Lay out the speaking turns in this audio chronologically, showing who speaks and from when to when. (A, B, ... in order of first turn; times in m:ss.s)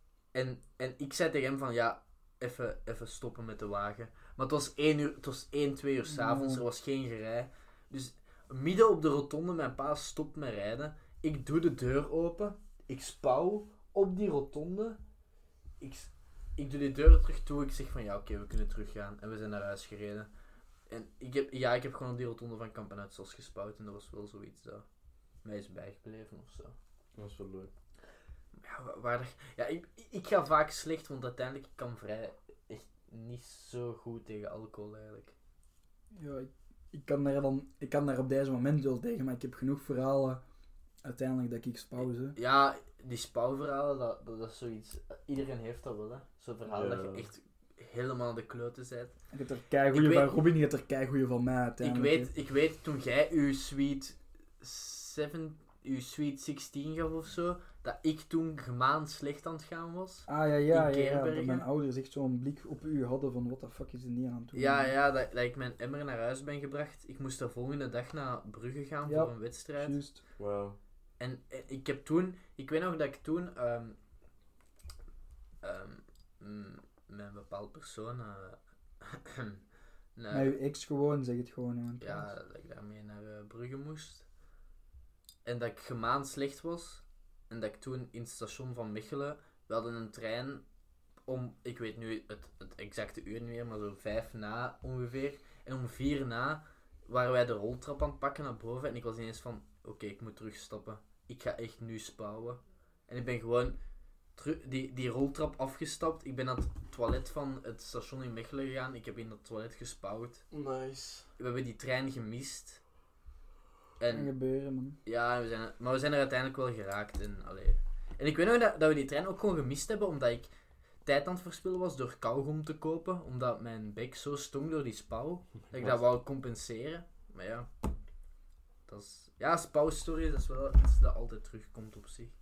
0:00.3-0:15.0 A
0:06.1-0:06.6 B
0:15.8-0:20.3 A
0:20.9-0:24.8 A
0:25.4-0:26.8 A
0:27.2-0:27.7 C
0:28.6-0:35.3 A
0:36.1-0:40.4 B
0:41.0-0:42.4 B
0:42.3-0:49.2 A
0:46.7-0:47.3 C
0:49.3-0:52.3 B
0:49.9-0:50.3 A
0:51.8-1:01.7 A
1:00.3-1:05.0 B
1:04.5-1:10.0 A
1:09.0-1:10.2 B
1:10.4-1:10.8 C
1:11.2-1:14.0 A
1:15.6-1:19.6 A
1:20.2-1:20.6 A
1:20.3-1:22.3 B
1:22.0-1:24.2 A
1:25.4-1:30.6 A
1:31.2-1:43.8 A
1:44.4-1:50.4 A
1:50.5-1:51.2 C
1:51.4-1:52.8 A
1:54.0-1:54.3 A
1:54.1-1:55.0 B
1:55.0-2:00.5 A
2:01.0-2:07.7 A
2:05.7-2:06.0 C
2:08.9-2:12.3 A